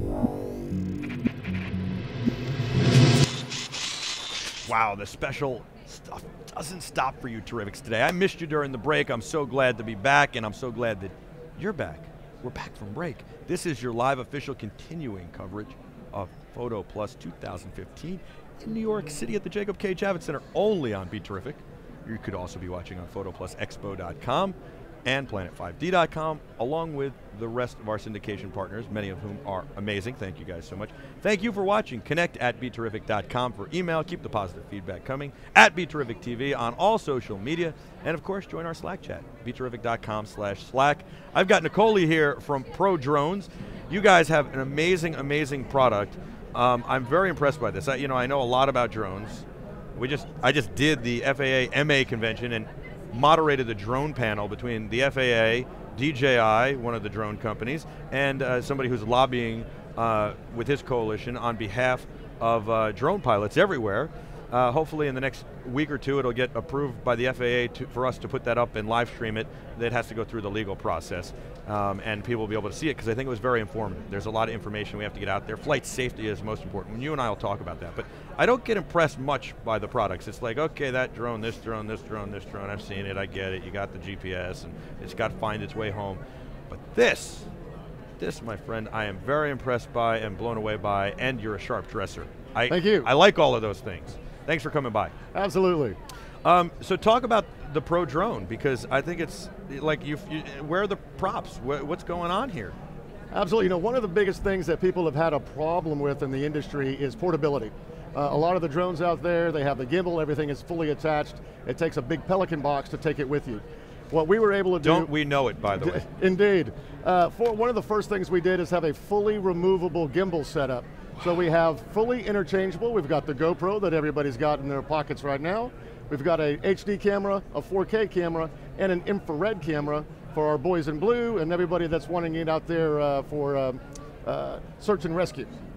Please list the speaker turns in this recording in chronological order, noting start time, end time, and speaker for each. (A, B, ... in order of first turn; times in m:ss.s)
0:04.7-0:49.4 A
0:50.0-1:27.5 A
1:28.2-1:35.1 A
1:32.7-1:33.1 B
1:35.3-1:36.0 B
1:36.4-1:42.8 A
1:43.3-1:55.1 B
1:54.8-1:56.0 A
1:55.7-2:15.5 B